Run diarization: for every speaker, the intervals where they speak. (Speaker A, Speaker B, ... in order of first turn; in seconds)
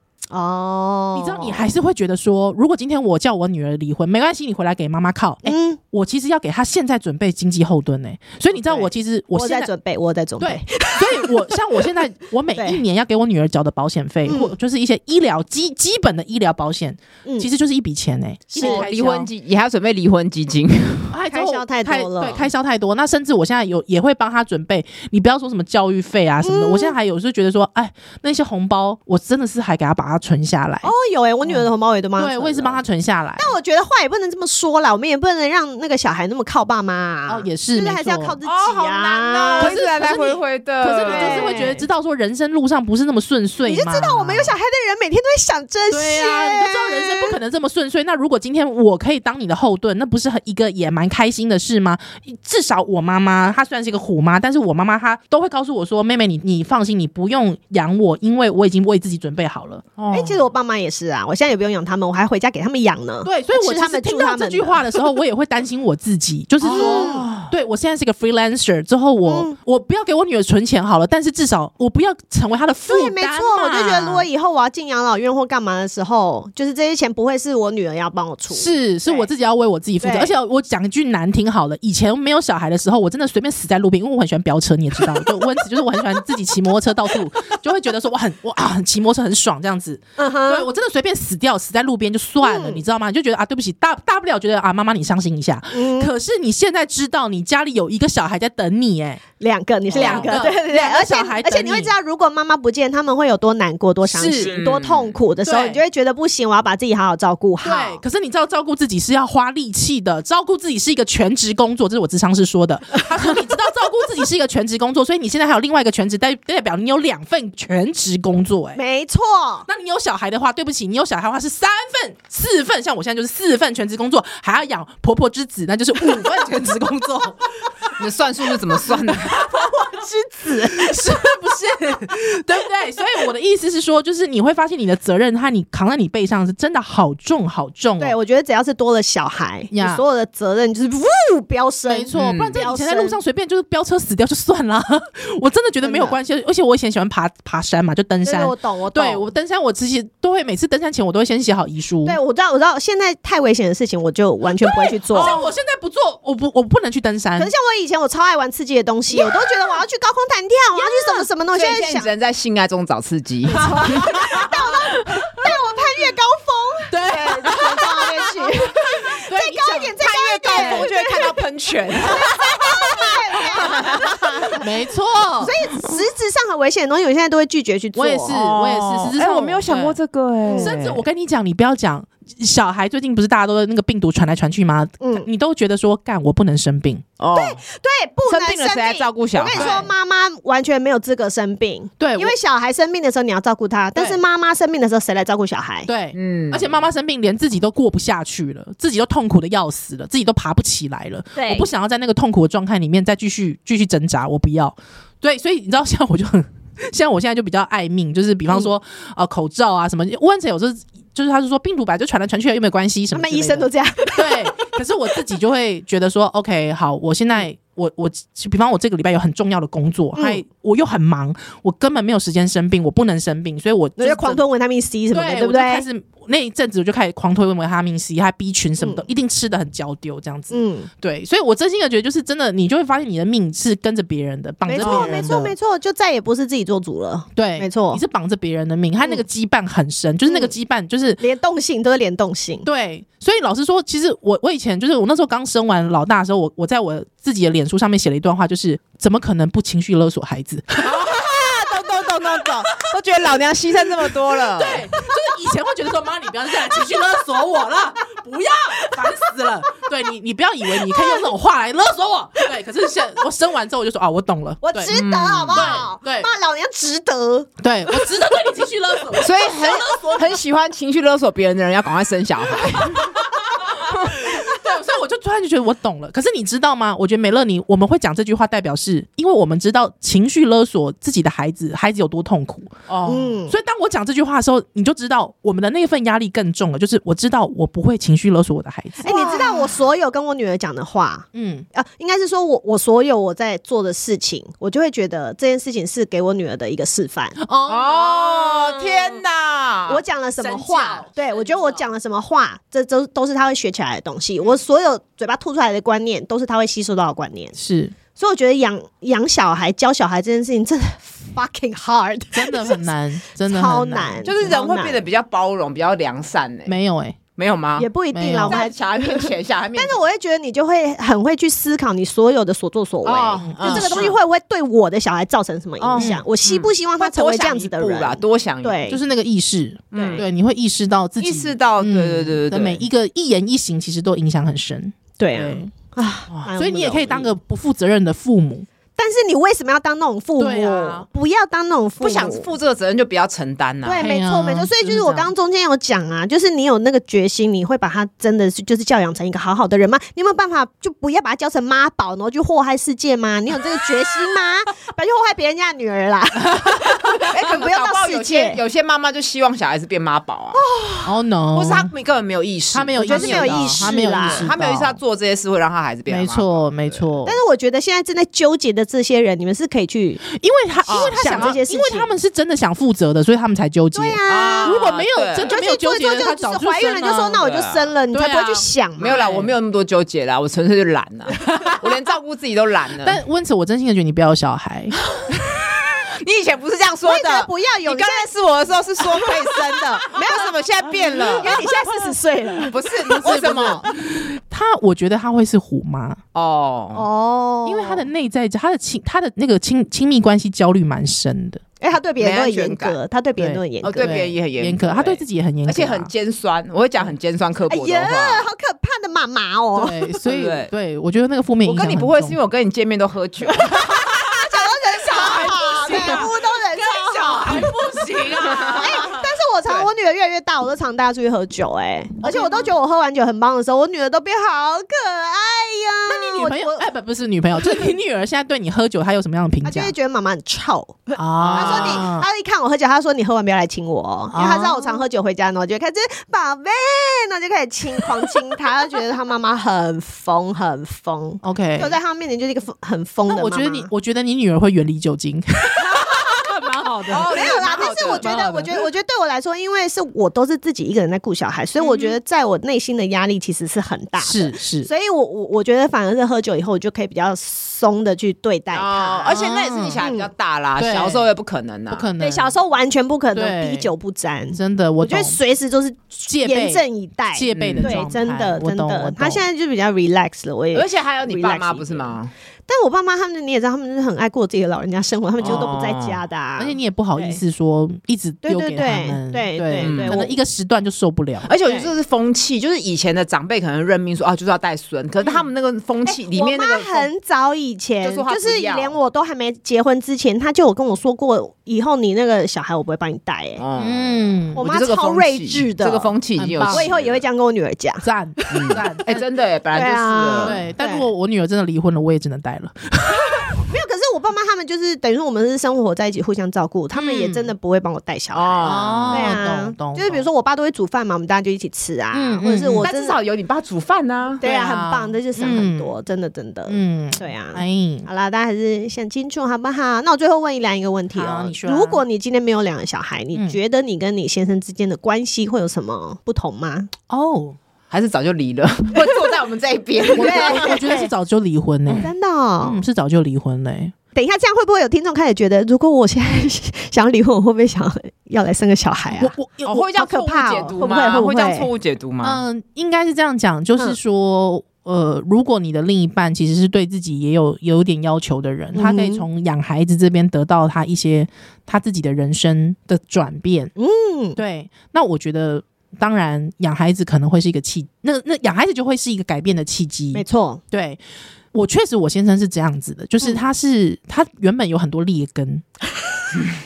Speaker A: 0.3-1.7, 5.4-5.8, 8.5-11.8, 12.5-12.8, 14.2-14.5, 18.5-18.8, 21.3-22.4, 26.4-26.9, 30.8-32.8, 33.4-40.4, 41.0-41.8, 43.6-47.4, 60.1-64.8, 66.6-67.3, 69.2-69.5, 72.9-79.3, 80.0-80.3, 90.2-90.7, 92.4-92.8, 95.7-96.1, 99.4-108.0, 118.7-119.7, 129.7-131.2, 138.0-143.2, 145.8-146.2, 148.2-149.2, 152.0-155.3, 157.4-162.1, 163.5-171.4, 172.0-174.6, 175.4-178.4, 180.5-180.8, 185.0-185.3, 187.3-195.9, 201.3-201.7, 213.1-214.7, 220.1-220.4, 224.0-225.8, 228.8-229.0, 230.5-230.9, 234.7-238.0, 240.3-240.5, 241.2-242.7, 260.8-261.2, 264.6-268.1, 283.0-283.5, 289.0-297.4, 299.9-307.6, 308.1-312.9, 313.5-315.0, 317.8-329.0, 329.9-330.2, 335.2-337.3, 338.9-342.5, 343.8-358.6, 360.5-361.1, 363.0-364.4, 367.2-370.2, 370.9-372.1, 373.9-374.8, 375.5-379.2, 387.1-388.3, 389.1-390.5, 391.3-393.8, 396.9-398.1, 401.8-404.2, 407.7-410.0, 413.5-417.4, 418.8-426.9, 429.6-443.9, 447.2-459.4, 460.0-460.3, 462.2-472.1, 472.7-477.4, 478.4-480.3, 481.6-481.9, 486.1-493.6, 494.5-496.1, 496.7-499.2, 499.7-501.1, 503.1-513.2, 514.4-526.9, 530.1-531.1, 532.0-532.8, 534.1-539.4, 539.9-541.7, 548.7-549.2, 553.8-554.4, 560.1-560.6
Speaker B: 1.1-9.7, 10.4-19.3, 21.1-30.9, 31.4-33.5, 37.3-38.4, 39.6-44.5, 45.9-59.8, 63.2-74.3, 78.5-99.2, 99.9-101.9, 104.0-104.6, 105.4-105.8, 107.6-118.8, 119.7-127.9, 129.1-138.2, 139.7-140.0, 141.9-152.2, 154.6-157.5, 159.1-159.5, 163.7-164.5, 166.9-169.9, 170.5-170.9, 174.6-175.6, 177.9-179.9, 180.5-187.0, 189.6-189.9, 192.0-192.3, 193.9-194.2, 195.9-224.4, 225.1-235.5, 237.3-241.2, 242.6-250.9, 254.5-264.9, 265.5-266.3, 267.6-270.4, 272.9-282.8, 283.5-289.4, 291.3-291.6, 297.4-298.9, 307.6-307.9, 312.3-314.3, 316.7-317.2, 318.1-318.7, 323.4-324.1, 326.0-326.2, 328.9-335.6, 336.6-338.7, 340.4-341.1, 344.0-345.3, 361.0-361.9, 362.7-365.0, 366.1-367.4, 370.2-377.4, 378.1-379.5, 383.0-385.0, 391.1-391.7, 393.1-396.2, 397.6-401.6, 403.4-406.1, 409.8-412.4, 415.1-419.2, 422.2-422.7, 426.1-429.9, 431.2-432.2, 434.3-435.0, 441.4-442.0, 443.3-448.8, 454.2-454.9, 459.3-460.0, 460.8-461.2, 461.9-462.5, 463.3-463.9, 464.5-465.4, 466.3-469.4, 476.6-481.5, 493.8-494.6, 496.4-496.9, 498.0-499.2, 500.4-503.6, 506.9-507.5, 508.6-510.2, 512.1-512.9, 514.4-515.9, 516.7-518.1, 521.1-522.0, 527.1-527.6, 530.1-532.1, 532.6-533.9, 539.1-539.9, 542.2-553.7, 554.4-561.0, 561.5-565.6
Speaker C: 18.6-21.1, 38.4-41.6, 60.0-60.5, 66.6-67.5, 99.9-100.3, 104.3-105.2, 128.0-129.4, 142.1-142.6, 161.5-164.4, 170.0-174.5, 178.3-181.0, 187.2-187.6, 188.3-189.9, 196.1-196.8, 234.8-235.2, 250.8-254.9, 264.9-265.8, 269.2-273.1, 282.9-283.4, 289.0-289.7, 297.7-301.1, 314.2-316.7, 317.4-317.9, 318.5-320.0, 323.0-324.1, 325.8-328.8, 329.9-330.2, 331.2-332.8, 342.0-344.0, 357.3-360.6, 361.5-367.0, 370.9-371.6, 374.3-375.5, 377.4-377.9, 379.0-383.2, 385.1-391.7, 392.7-393.8, 396.3-397.1, 402.2-403.0, 403.8-408.5, 410.2-410.7, 411.6-414.1, 415.1-416.3, 416.9-419.1, 431.4-432.1, 447.0-448.3, 451.8-452.1, 458.7-462.1, 467.5-468.0, 470.7-472.3, 475.4-476.2, 479.8-480.2, 481.4-487.1, 488.0-488.9, 493.6-497.2, 498.5-500.6, 508.3-509.4, 512.8-514.4, 527.9-530.8, 539.6-542.4